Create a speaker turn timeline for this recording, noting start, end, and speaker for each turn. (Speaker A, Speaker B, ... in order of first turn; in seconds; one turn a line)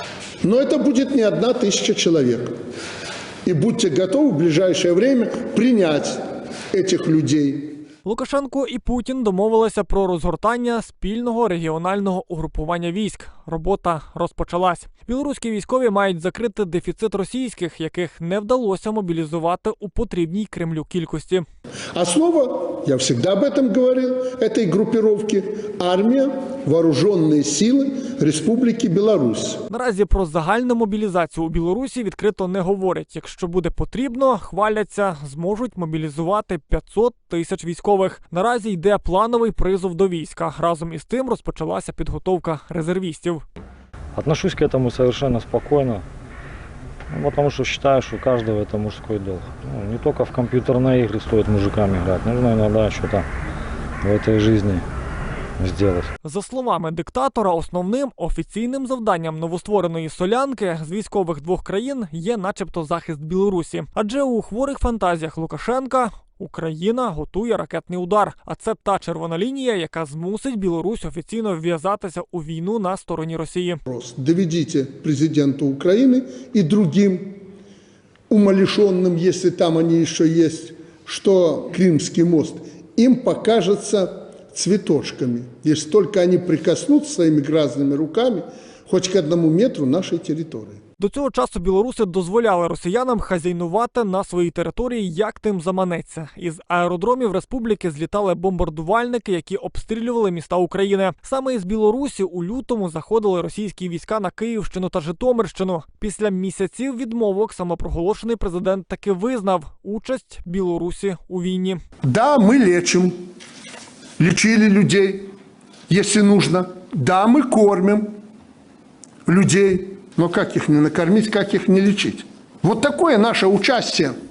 Speaker A: 0.4-2.5
Speaker A: 3.5-6.2
Speaker A: 6.7-7.8
Speaker B: 8.1-21.4
Speaker A: 21.9-29.6
Speaker B: 29.7-43.4
Speaker C: 44.1-46.0
Speaker C: 47.1-53.3
Speaker C: 54.0-54.9
Speaker C: 55.6-56.1
Speaker B: 56.2-73.8
Speaker A: 73.9-77.4
Speaker A: 78.3-90.8
Speaker B: 91.0-111.8
Speaker A: 112.0-113.1
Speaker A: 114.2-115.3
Speaker A: 115.9-118.1
Speaker A: 119.3-124.1